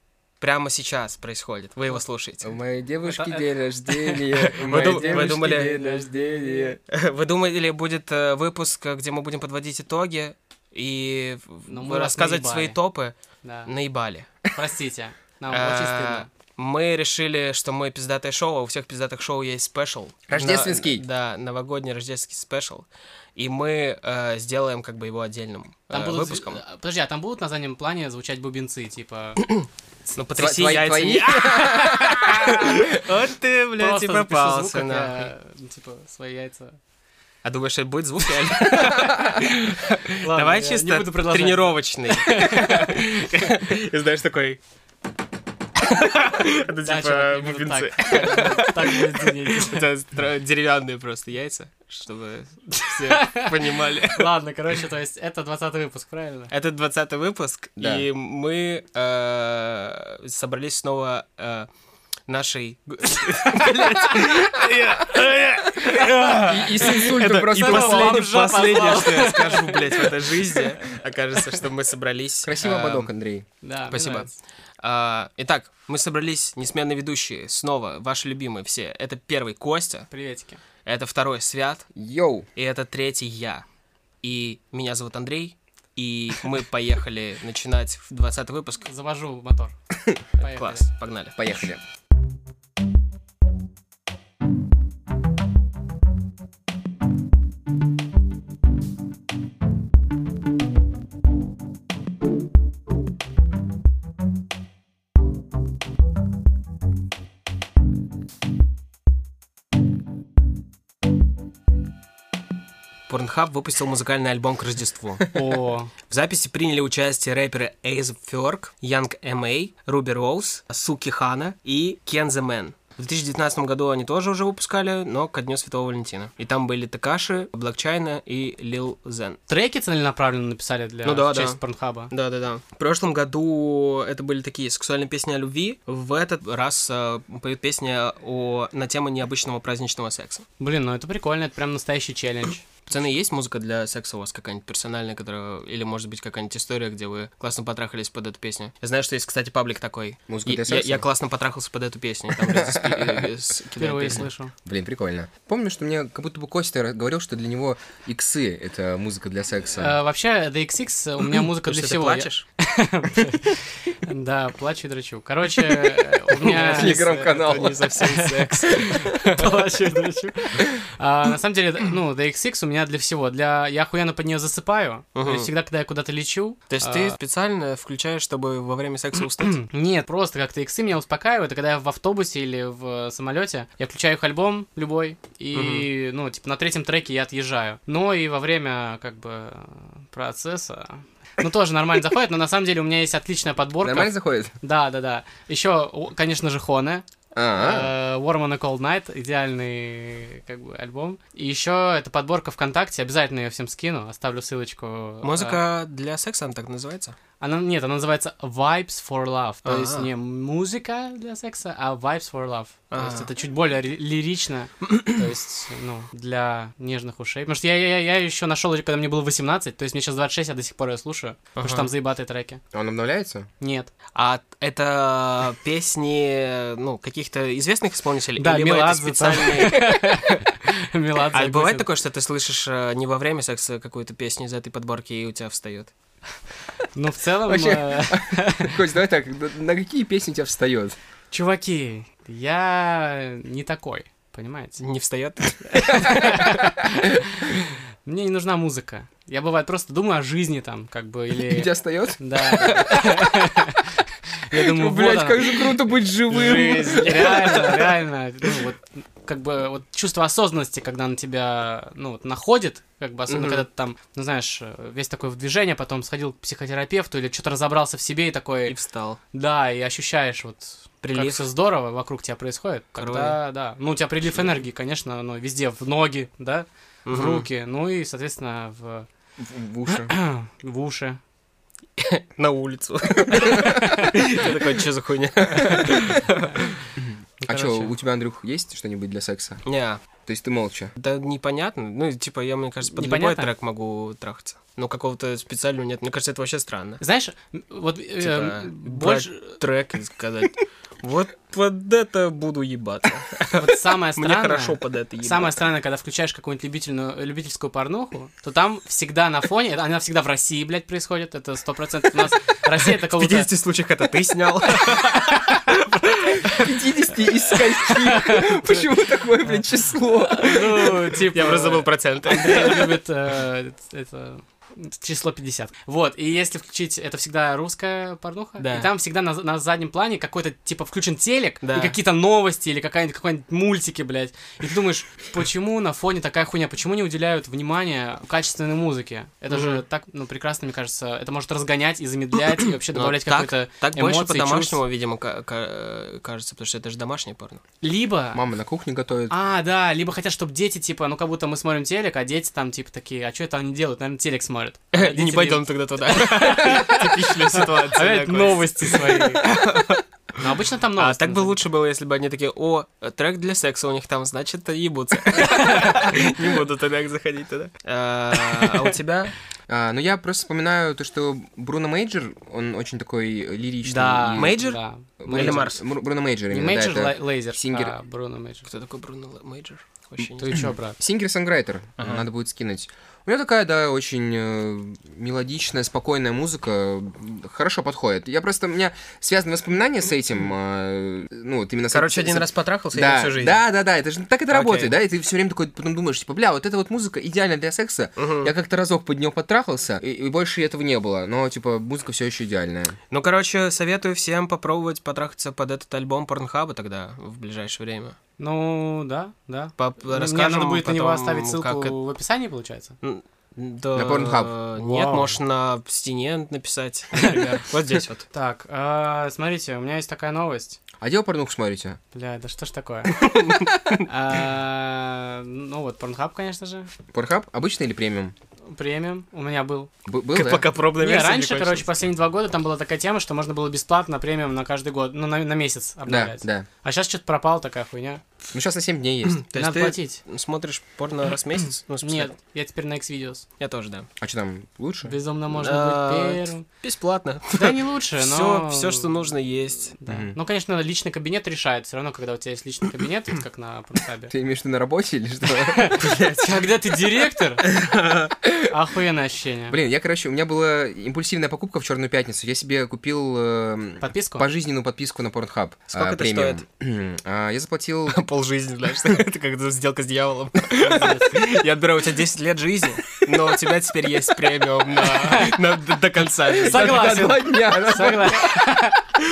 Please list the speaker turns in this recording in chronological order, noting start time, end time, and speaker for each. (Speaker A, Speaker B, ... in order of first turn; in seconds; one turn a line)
Speaker A: 0.4-2.5
Speaker B: 2.4-6.8
Speaker C: 3.0-6.6
Speaker A: 4.6-5.9
Speaker A: 6.5-13.2
Speaker C: 11.7-12.8
Speaker C: 13.4-13.7
Speaker A: 13.7-14.4
Speaker C: 14.5-16.3
Speaker A: 15.5-26.6
Speaker B: 20.3-21.0
Speaker C: 25.9-29.4
Speaker A: 29.4-35.3
Speaker B: 30.4-32.2
Speaker C: 32.0-32.8
Speaker C: 33.8-36.8
Speaker A: 37.4-44.6
Speaker C: 38.5-38.9
Speaker B: 38.9-39.4
Speaker C: 40.2-43.6
Speaker A: 45.8-54.3
Speaker C: 46.9-49.9
Speaker C: 52.9-56.5
Speaker A: 56.5-61.7
Speaker B: 57.8-58.1
Speaker A: 62.3-73.0
Speaker C: 65.8-70.6
Speaker B: 66.5-68.3
Speaker B: 72.5-73.5
Speaker C: 72.6-73.1
Speaker C: 73.6-74.3
Speaker A: 73.9-80.1
Speaker C: 80.1-80.6
Speaker A: 80.8-81.9
Speaker B: 82.0-82.5
Speaker A: 82.5-83.7
Speaker A: 84.2-88.9
Speaker C: 88.9-89.8
Speaker C: 90.4-90.9
Speaker A: 90.4-91.6
Speaker B: 91.4-91.8
Speaker A: 113.1-115.4
Speaker C: 115.3-115.9
Speaker A: 116.0-129.4
Speaker C: 129.5-132.1
Speaker A: 131.0-131.6
Speaker A: 132.1-140.4
Speaker C: 140.6-142.7
Speaker A: 142.9-154.3
Speaker B: 150.3-151.1
Speaker B: 152.5-153.2
Speaker C: 153.8-154.5
Speaker B: 154.7-159.9
Speaker C: 159.8-177.2
Speaker A: 161.6-162.4
Speaker A: 166.3-169.1
Speaker B: 166.4-167.9
Speaker A: 175.2-175.5
Speaker A: 176.7-179.6
Speaker C: 179.4-205.6
Speaker A: 185.5-185.9
Speaker B: 193.8-194.5
Speaker B: 197.3-197.9
Speaker A: 205.2-207.2
Speaker C: 207.4-222.6
Speaker A: 209.7-210.1
Speaker A: 212.9-213.3
Speaker A: 221.6-221.9
Speaker B: 222.7-223.5
Speaker C: 223.6-223.9
Speaker A: 224.1-230.4
Speaker C: 228.4-231.9
Speaker A: 231.3-235.9
Speaker C: 236.9-238.8
Speaker B: 237.5-241.0
Speaker C: 241.3-244.8
Speaker A: 244.8-246.3
Speaker C: 245.7-255.8
Speaker B: 245.9-246.9
Speaker B: 251.3-253.2
Speaker B: 254.5-257.8
Speaker A: 256.3-257.8
Speaker C: 256.9-268.8
Speaker A: 263.3-263.6
Speaker A: 268.7-269.2
Speaker C: 269.3-279.1
Speaker A: 271.0-271.4
Speaker A: 273.0-273.4
Speaker A: 277.1-277.5
Speaker B: 279.4-280.1
Speaker C: 279.9-281.2
Speaker A: 282.0-286.8
Speaker C: 283.4-284.1
Speaker B: 287.0-289.6
Speaker C: 287.4-287.9
Speaker A: 289.6-290.0
Speaker B: 290.2-290.9
Speaker A: 291.0-297.0
Speaker C: 292.9-293.5
Speaker C: 297.0-299.6
Speaker A: 298.2-305.6
Speaker C: 303.5-313.5
Speaker A: 312.9-316.7
Speaker C: 314.8-315.6
Speaker B: 316.5-320.9
Speaker C: 317.8-318.9
Speaker C: 320.2-344.8
Speaker A: 321.3-323.0
Speaker A: 328.6-328.9
Speaker A: 331.6-331.9
Speaker A: 339.5-339.8
Speaker A: 342.9-347.6
Speaker C: 347.8-348.4
Speaker B: 348.3-349.3
Speaker C: 349.3-359.5
Speaker A: 354.9-360.0
Speaker C: 360.4-361.6
Speaker A: 361.0-369.3
Speaker C: 365.4-366.1
Speaker C: 368.5-368.9
Speaker B: 369.7-374.6
Speaker C: 373.9-375.8
Speaker A: 374.1-375.8
Speaker B: 375.2-377.9
Speaker C: 376.5-378.7
Speaker A: 378.7-380.6
Speaker C: 380.4-381.0
Speaker B: 380.5-403.0
Speaker A: 382.0-382.3
Speaker A: 391.9-393.6
Speaker A: 394.5-394.9
Speaker A: 398.2-398.5
Speaker A: 403.1-408.2
Speaker C: 408.4-412.9
Speaker A: 409.8-412.0
Speaker A: 413.0-418.3
Speaker B: 413.9-414.5
Speaker C: 414.8-415.4
Speaker C: 417.2-417.6
Speaker C: 418.3-420.8
Speaker B: 421.0-422.0
Speaker C: 422.1-423.3
Speaker A: 423.1-424.1
Speaker C: 424.0-426.9
Speaker B: 427.1-428.3
Speaker C: 428.7-429.9
Speaker B: 430.1-430.7
Speaker A: 430.3-431.9
Speaker C: 430.9-438.2
Speaker B: 436.1-436.7
Speaker B: 438.5-439.4
Speaker A: 439.3-442.4
Speaker C: 439.6-440.2
Speaker C: 442.0-443.5
Speaker A: 443.6-444.1
Speaker B: 444.2-445.2
Speaker C: 445.1-446.6
Speaker A: 445.5-450.0
Speaker C: 447.5-449.1
Speaker C: 450.0-454.3
Speaker B: 450.1-450.4
Speaker B: 454.3-456.1
Speaker C: 455.5-457.7
Speaker A: 456.1-456.6
Speaker A: 457.6-458.3
Speaker C: 458.6-459.8
Speaker B: 459.7-468.2
Speaker C: 464.0-464.4
Speaker A: 465.9-466.6
Speaker A: 468.1-477.1
Speaker C: 470.8-471.4
Speaker C: 474.9-475.6
Speaker C: 476.5-479.1
Speaker B: 476.7-478.7